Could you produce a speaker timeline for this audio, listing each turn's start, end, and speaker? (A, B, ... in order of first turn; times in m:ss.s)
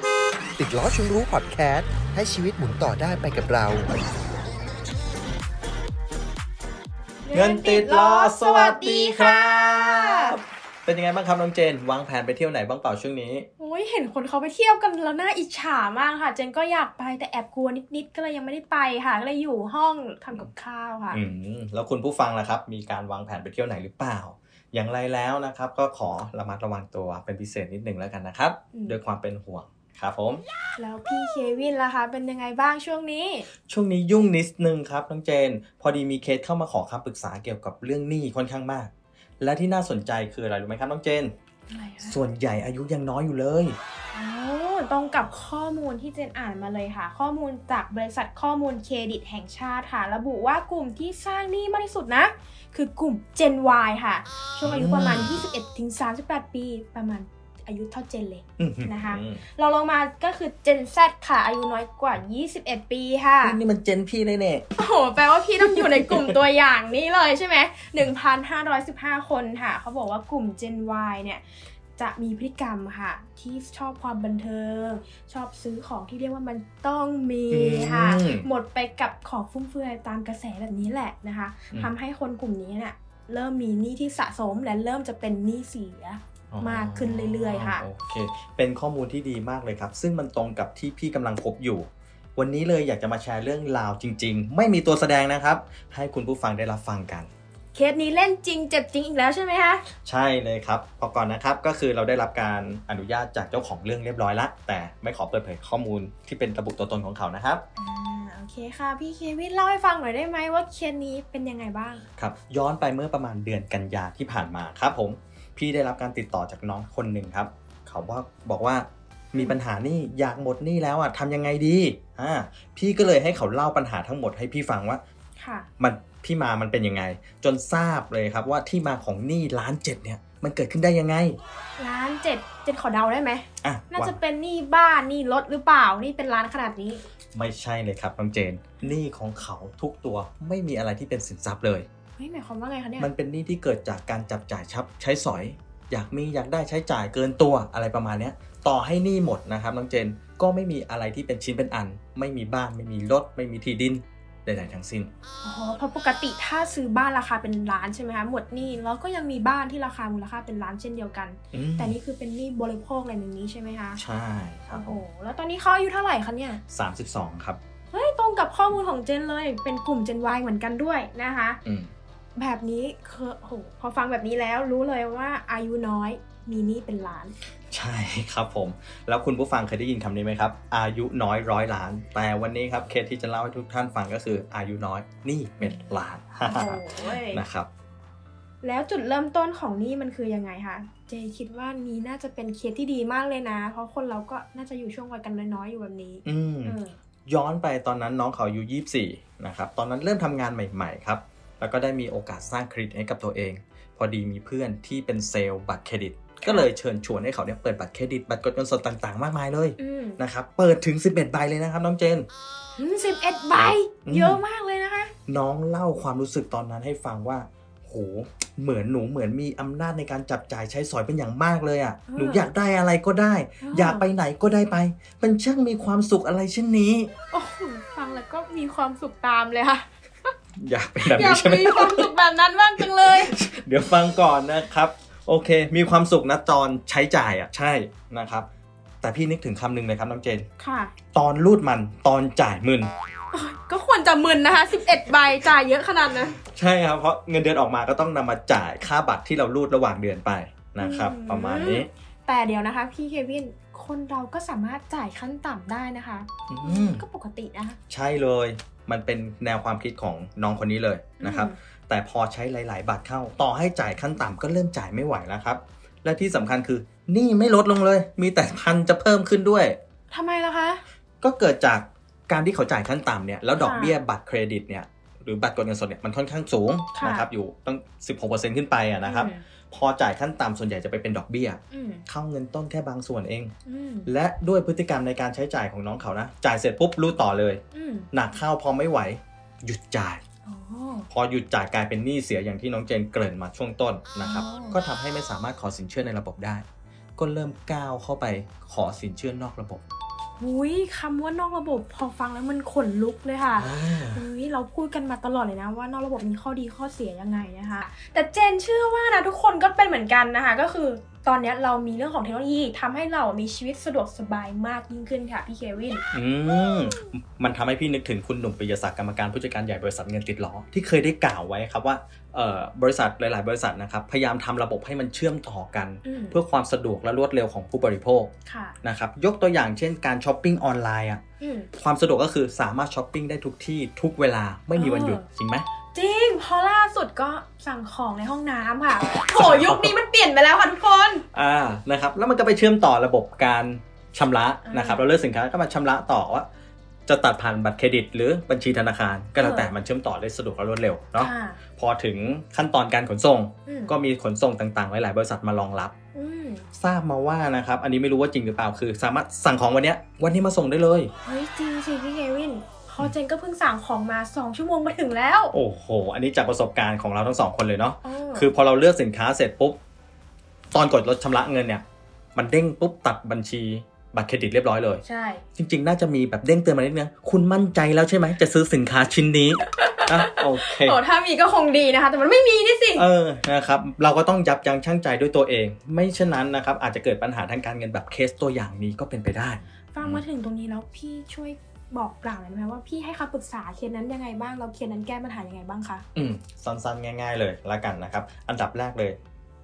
0:00.6-0:03.9 A
0:07.2-0:10.4 B
0:07.3-0:13.5 C
0:13.6-0:21.2 B
0:21.1-0:30.4 C
0:30.8-0:33.5 B
0:33.7-0:41.3 C
0:41.7-0:42.2 B
0:42.0-0:43.8 C
0:44.1-1:03.6 B
0:54.6-0:55.4 C
0:58.6-0:59.4 C
1:03.4-1:04.6 C
1:04.8-1:11.4 B
1:05.6-1:06.4 C
1:12.0-1:27.8 B
1:17.5-1:18.5 C
1:26.5-1:37.3 C
1:37.7-1:39.8 B
1:40.0-1:47.6 C
1:47.8-1:52.0 B
1:52.2-2:05.0 C
2:05.4-2:05.7 B
2:05.8-2:11.4 C
2:11.8-2:17.0 B
2:13.6-2:14.2 C
2:17.3-2:21.9 C
2:22.2-2:23.1 B
2:23.0-2:35.1 C
2:35.4-2:44.0 B
2:41.5-2:42.0 C
2:44.0-2:45.0 C
2:44.7-2:46.6 B
2:46.7-2:47.6 C
2:47.9-2:51.6 B
2:51.6-2:51.9 C
2:52.4-2:57.4 B
2:57.7-3:07.7 C
3:06.4-3:07.4 B
3:08.6-3:16.9 B
3:16.2-3:32.3 C
3:26.4-3:26.7 B
3:29.8-3:30.2 B
3:32.8-3:35.1 B
3:34.0-3:34.4 C
3:35.3-3:47.1 C
3:42.1-3:42.5 B
3:43.6-3:44.0 B
3:47.3-3:50.3 B
3:50.6-3:52.1 C
3:51.1-3:53.3 B
3:52.8-3:58.5 C
3:59.0-4:00.5 C
4:00.6-4:00.9 B
4:01.1-4:02.9 C
4:03.3-4:06.4 B
4:06.4-4:11.9 C
4:10.8-4:17.8 B
4:16.5-4:17.0 C
4:17.9-4:29.8 C
4:21.2-4:21.6 B
4:30.1-4:30.8 B
4:31.2-4:43.5 C
4:33.5-4:34.0 B
4:37.0-4:37.3 B
4:39.0-4:39.4 B
4:41.7-4:42.0 B
4:43.6-4:44.1 B
4:44.0-4:50.2 C
4:47.7-4:48.1 B
4:50.4-4:51.1 B
4:51.1-4:56.6 C
4:54.2-4:54.8 B
4:57.2-4:59.8 C
5:00.4-5:16.0 B
5:03.5-5:04.2 C
5:16.1-5:28.3 C
5:26.0-5:26.4 B
5:28.4-5:28.7 B
5:28.8-5:31.2 C
5:31.4-5:31.7 B
5:31.8-5:35.6 C
5:34.7-5:35.2 B
5:35.9-5:41.2 B
5:39.3-5:39.9 C
5:41.3-5:46.5 C
5:44.6-5:45.0 B
5:47.0-5:55.9 C
5:49.4-5:49.7 B
5:51.2-5:51.6 B
5:53.6-5:53.9 B
5:56.1-5:56.6 B
5:56.8-6:01.1 C
6:01.2-6:05.6 B
6:05.5-6:09.8 C
6:08.0-6:08.5 B
6:10.7-6:11.8 C
6:12.3-6:15.0 C
6:15.0-6:15.4 B
6:15.6-6:21.0 C
6:19.7-6:23.0 B
6:22.9-6:30.2 C
6:29.9-6:36.0 B
6:36.1-6:39.2 C